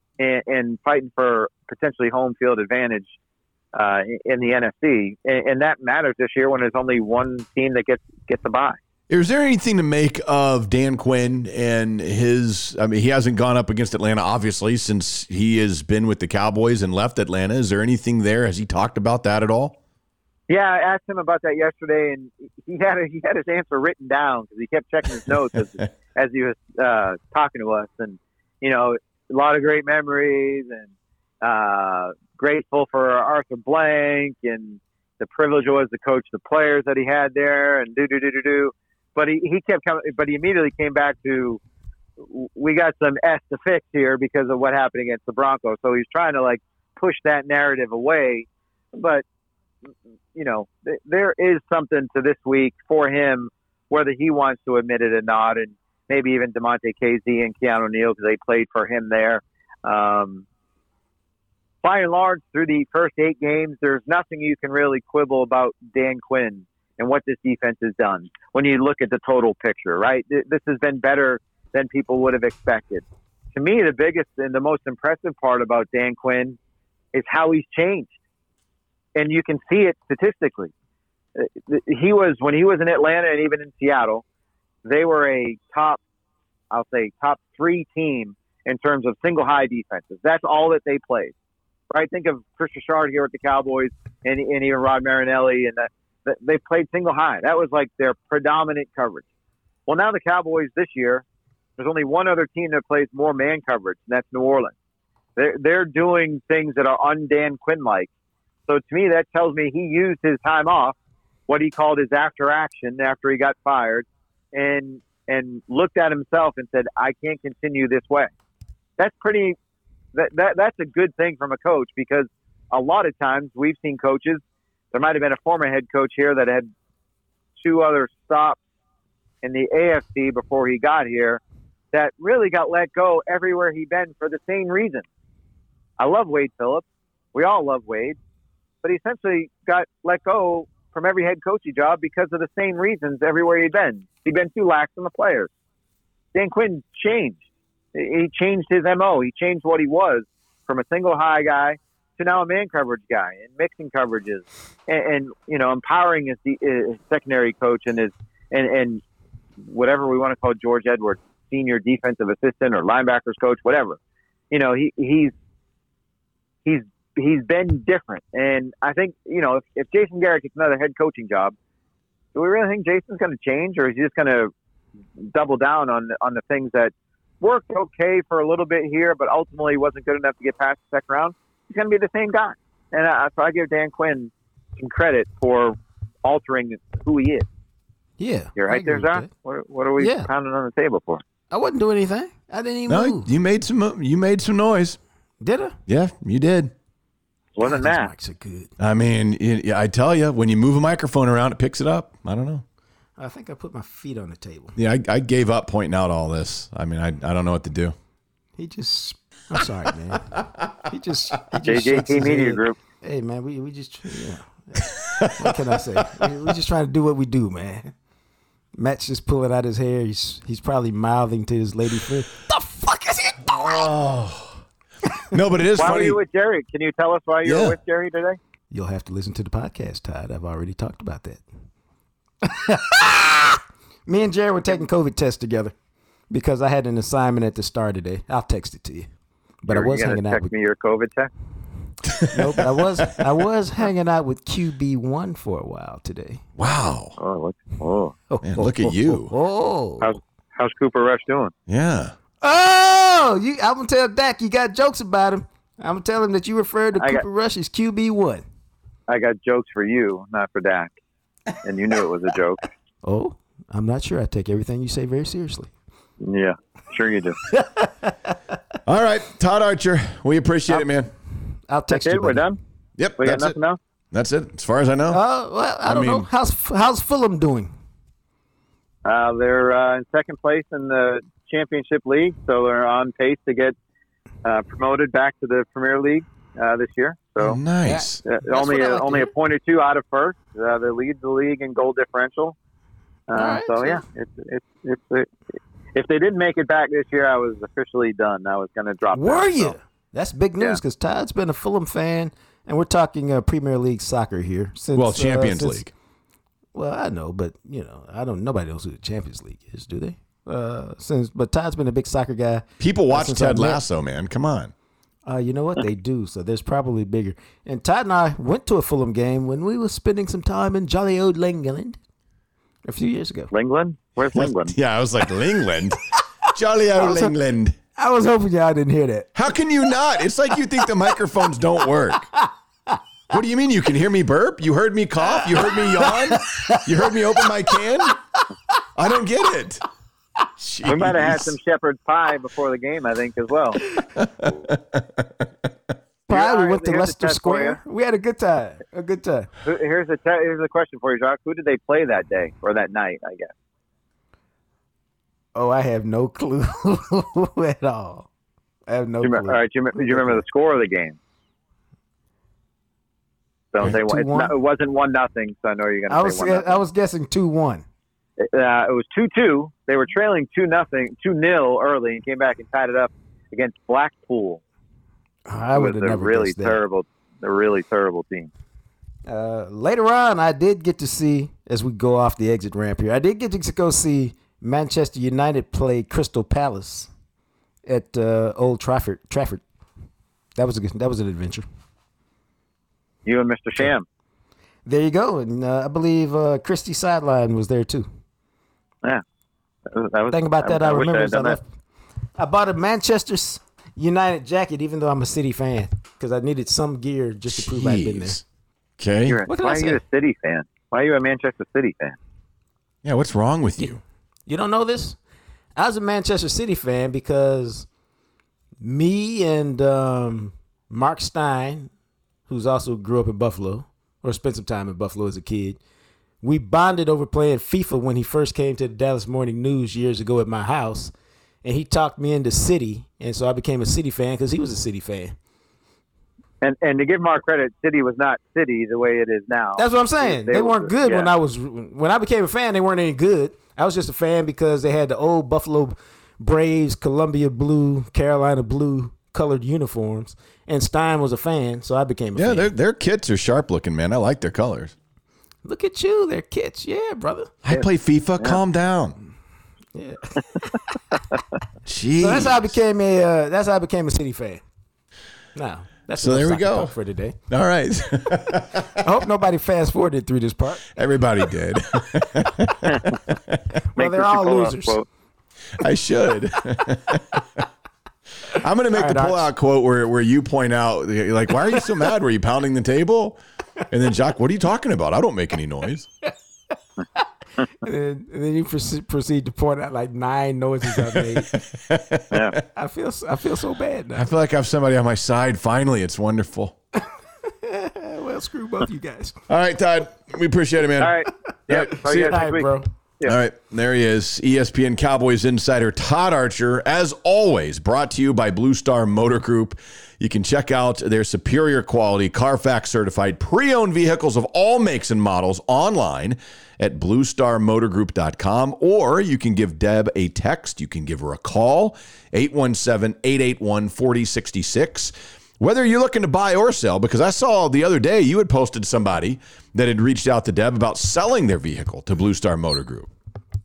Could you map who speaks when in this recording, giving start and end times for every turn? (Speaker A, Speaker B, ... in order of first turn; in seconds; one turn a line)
Speaker A: 0.2-3.1
Speaker A: 3.7-8.8
Speaker B: 9.1-19.8
Speaker A: 20.5-30.9
Speaker A: 31.4-41.6
Speaker A: 42.2-49.2
Speaker A: 50.4-60.5
Speaker A: 61.8-76.6
Speaker A: 77.1-78.1
Speaker A: 79.2-80.7
Speaker A: 81.4-84.2
Speaker A: 84.8-86.0
Speaker A: 86.7-91.3
Speaker A: 91.9-99.2
Speaker A: 99.9-101.2
Speaker A: 101.8-104.7
Speaker A: 105.4-108.1
Speaker A: 108.7-111.0
Speaker A: 111.5-118.3
Speaker A: 119.0-119.6
Speaker A: 120.1-124.4
Speaker A: 124.9-126.7
Speaker A: 127.6-128.6
Speaker A: 129.4-131.4
Speaker A: 131.9-135.1
Speaker A: 136.0-138.2
Speaker A: 138.8-145.5
Speaker A: 146.3-147.4
Speaker A: 147.9-159.0
Speaker A: 159.6-164.0
Speaker A: 164.5-165.3
Speaker A: 166.7-171.6
Speaker A: 172.3-174.5
Speaker A: 175.2-187.4
Speaker C: 188.2-189.3
Speaker A: 188.6-191.2
Speaker C: 190.0-190.3
Speaker C: 191.5-193.3
Speaker B: 192.9-195.0
Speaker C: 195.4-195.8
Speaker B: 195.9-196.7
Speaker A: 197.6-198.1
Speaker C: 197.6-198.7
Speaker B: 198.8-202.6
Speaker C: 203.2-204.8
Speaker B: 204.8-207.9
Speaker C: 208.6-210.3
Speaker C: 210.8-217.9
Speaker A: 211.7-212.8
Speaker B: 215.0-216.3
Speaker C: 218.8-223.9
Speaker B: 223.5-224.6
Speaker B: 225.3-226.2
Speaker A: 225.8-228.4
Speaker B: 227.4-227.8
Speaker C: 228.7-231.4
Speaker C: 232.4-235.7
Speaker C: 236.3-239.1
Speaker C: 239.6-240.5
Speaker A: 239.7-241.3
Speaker B: 242.1-243.2
Speaker C: 242.3-246.4
Speaker B: 246.6-247.2
Speaker A: 247.2-248.2
Speaker C: 248.3-250.1
Speaker B: 248.4-249.3
Speaker A: 250.0-251.5
Speaker B: 251.7-252.2
Speaker C: 252.4-258.4
Speaker A: 257.0-257.2
Speaker A: 259.1-260.9
Speaker A: 261.6-262.6
Speaker C: 263.0-265.7
Speaker A: 266.2-267.4
Speaker C: 267.5-268.6
Speaker B: 268.9-271.1
Speaker C: 271.7-272.5
Speaker A: 271.9-272.6
Speaker B: 273.0-273.6
Speaker A: 273.2-273.8
Speaker B: 274.1-275.2
Speaker C: 275.1-277.7
Speaker B: 275.9-276.3
Speaker A: 279.1-283.8
Speaker A: 284.4-287.6
Speaker B: 287.4-288.2
Speaker C: 287.9-289.3
Speaker A: 288.2-292.6
Speaker A: 293.3-295.3
Speaker C: 293.3-294.0
Speaker A: 295.9-299.8
Speaker C: 299.1-305.9
Speaker B: 304.9-305.9
Speaker C: 306.7-313.8
Speaker B: 312.8-314.7
Speaker C: 315.3-322.0
Speaker C: 322.9-323.5
Speaker A: 323.5-324.8
Speaker B: 324.3-326.0
Speaker B: 326.5-327.8
Speaker C: 327.0-327.3
Speaker C: 328.0-329.4
Speaker B: 329.4-332.3
Speaker C: 330.8-331.1
Speaker C: 332.3-333.0
Speaker B: 333.3-338.2
Speaker C: 335.2-338.1
Speaker B: 338.9-339.8
Speaker B: 340.6-341.6
Speaker A: 340.9-343.8
Speaker B: 344.2-345.2
Speaker C: 346.3-349.5
Speaker A: 346.3-347.8
Speaker A: 349.6-353.5
Speaker C: 355.6-358.3
Speaker C: 358.9-360.4
Speaker A: 359.2-361.2
Speaker A: 363.7-366.8
Speaker C: 363.8-364.6
Speaker C: 366.1-367.9
Speaker A: 368.4-374.6
Speaker C: 375.5-376.8
Speaker A: 375.7-378.5
Speaker C: 379.3-387.1
Speaker C: 387.9-389.6
Speaker C: 390.6-391.6
Speaker A: 393.2-394.1
Speaker C: 394.9-398.1
Speaker A: 399.9-401.6
Speaker C: 400.3-401.7
Speaker C: 402.4-408.4
Speaker B: 407.5-408.4
Speaker B: 409.0-409.4
Speaker A: 409.3-412.2
Speaker C: 409.5-410.0
Speaker B: 413.1-414.0
Speaker C: 414.5-415.2
Speaker C: 415.8-417.9
Speaker C: 418.8-421.9
Speaker C: 422.5-425.8
Speaker C: 426.4-431.1
Speaker C: 431.6-435.4
Speaker A: 436.6-441.3
Speaker C: 439.8-452.7
Speaker B: 452.4-454.9
Speaker C: 455.6-457.6
Speaker B: 457.7-459.2
Speaker C: 459.9-460.8
Speaker B: 461.9-462.8
Speaker C: 462.2-464.6
Speaker C: 465.6-467.4
Speaker B: 466.2-466.9
Speaker B: 467.5-469.0
Speaker C: 469.0-470.9
Speaker B: 471.0-473.6
Speaker A: 472.8-473.2
Speaker C: 473.9-475.0
Speaker A: 473.9-475.1
Speaker B: 475.8-477.4
Speaker B: 478.5-486.1
Speaker C: 478.9-479.4
Speaker C: 487.8-491.6
Speaker B: 491.1-492.4
Speaker A: 492.3-492.6
Speaker C: 492.7-494.3
Speaker B: 494.1-496.8
Speaker C: 497.0-499.4
Speaker B: 499.5-501.1
Speaker A: 501.0-503.4
Speaker B: 501.7-502.4
Speaker C: 501.7-502.9
Speaker B: 503.2-533.1